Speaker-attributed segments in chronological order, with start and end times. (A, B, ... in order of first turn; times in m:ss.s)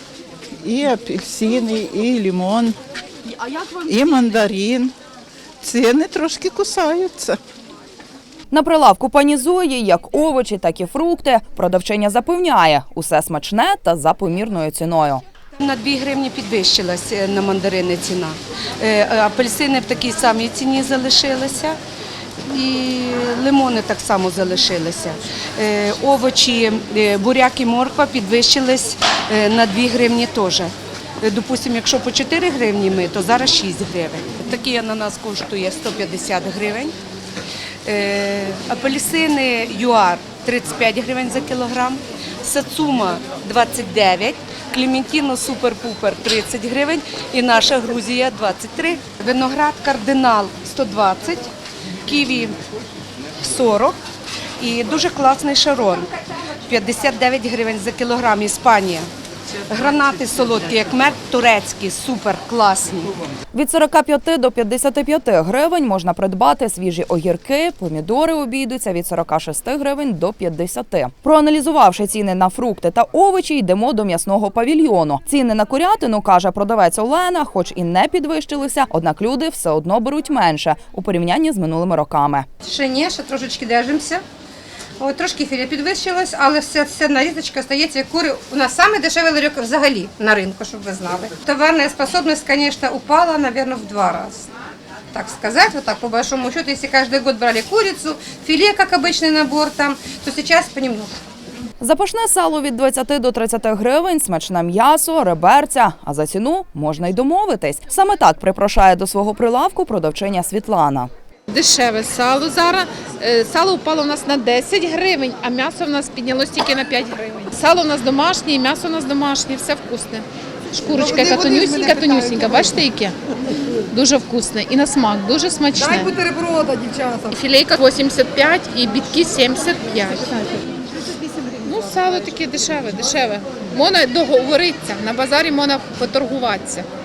0:00.6-0:02.8 A
0:03.3-0:04.9 A
0:05.6-0:07.4 A
0:08.5-0:15.2 B
0:15.6-0:21.8 C
0:22.5-0:36.9 C
0:37.8-0:51.5 C
0:52.0-0:52.6 C
0:53.4-0:54.0 C
0:54.6-0:56.1 C
0:56.7-0:59.1 C
0:59.7-1:03.1 C
1:03.5-1:22.5 B
1:22.6-1:24.2 D
1:25.0-1:34.5 D
1:35.1-1:41.2 D
1:41.8-1:51.1 B
1:51.5-2:03.2 E
2:00.9-2:02.8 D
2:03.9-2:06.1 E
2:05.8-2:07.3 D
2:07.3-2:10.6 E
2:11.6-2:16.9 E